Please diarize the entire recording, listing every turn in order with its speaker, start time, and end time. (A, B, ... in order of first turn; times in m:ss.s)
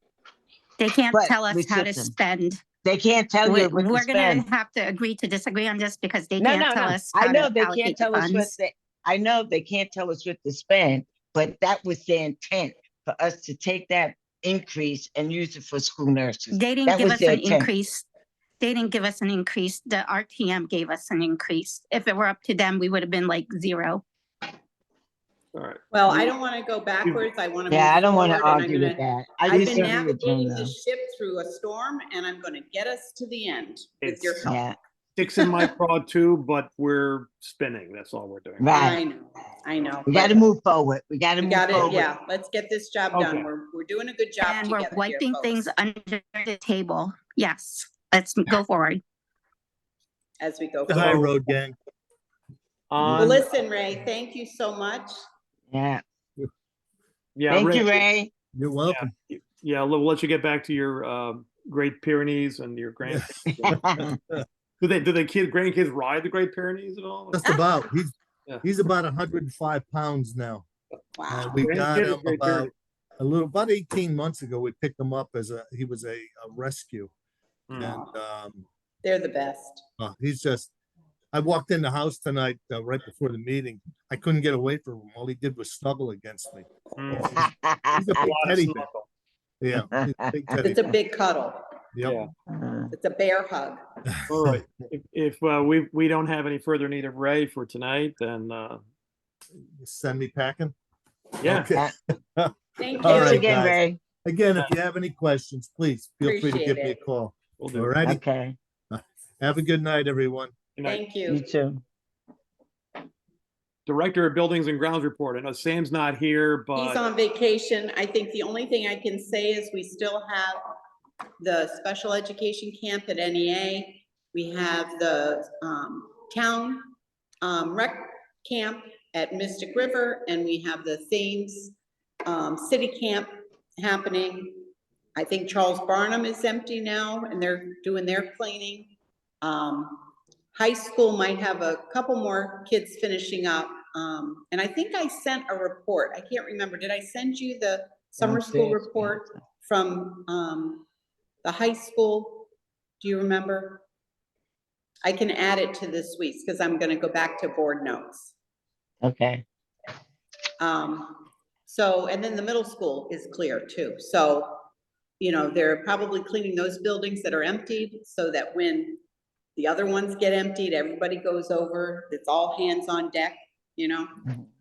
0:00.8-0:02.6 A
0:01.1-0:02.1 B
0:02.8-0:04.5 B
0:03.4-0:08.5 A
0:06.4-0:17.7 B
0:16.5-0:18.0 A
0:18.6-0:24.0 A
0:25.5-0:26.3 C
0:25.9-0:34.6 D
0:27.7-0:30.7 B
0:34.0-0:34.5 C
0:34.4-0:34.8 B
0:35.2-0:38.8 C
0:35.2-0:35.6 D
0:38.6-0:39.0 B
0:38.7-0:40.5 D
0:40.1-0:42.0 B
0:41.4-0:45.6 D
0:41.7-0:42.0 C
0:43.1-0:43.5 C
0:44.4-0:49.0 A
0:50.4-0:51.5 D
0:50.9-0:51.8 E
0:52.9-0:53.5 C
0:53.0-0:53.4 E
0:53.2-0:55.1 D
0:55.7-0:56.0 B
0:57.4-0:58.0 C
0:57.5-0:58.3 B
0:58.6-0:59.1 E
0:58.9-1:03.9 C
1:03.5-1:04.1 B
1:03.7-1:04.4 E
1:04.8-1:07.4 C
1:07.3-1:10.6 E
1:11.2-1:11.6 D
1:11.3-1:17.1 E
1:11.6-1:12.7 C
1:17.7-1:18.0 C
1:17.8-1:18.7 E
1:17.9-1:18.1 D
1:19.0-1:19.8 D
1:20.0-1:20.7 E
1:21.3-1:28.9 E
1:27.0-1:27.4 C
1:27.4-1:28.0 B
1:28.2-1:29.1 C
1:29.6-1:30.8 E
1:29.8-1:30.6 B
1:30.6-1:31.6 D
1:31.9-1:32.2 E
1:32.0-1:32.3 C
1:32.5-1:32.9 B
1:32.9-1:33.8 D
1:34.1-1:34.6 E
1:34.3-1:38.8 C
1:39.8-1:40.8 E
1:41.4-1:41.7 C
1:41.4-1:48.2 E
1:42.8-1:43.5 D
1:43.0-1:44.0 B
1:46.2-1:47.0 D
1:47.6-1:48.0 C
1:48.0-1:48.6 B
1:48.9-1:50.5 E
1:50.8-1:51.0 C
1:50.8-1:51.4 D
1:51.3-1:51.8 B
1:53.9-1:57.0 C
1:56.8-2:00.6 D
2:01.4-2:11.8 D
2:12.3-2:30.8 D
2:28.2-2:29.3 B
2:31.4-2:32.5 D
2:33.0-2:33.8 D
2:35.0-2:38.3 D
2:39.0-2:39.4 B
2:40.6-2:44.6 D
2:45.2-2:49.0 D
2:49.6-2:54.1 D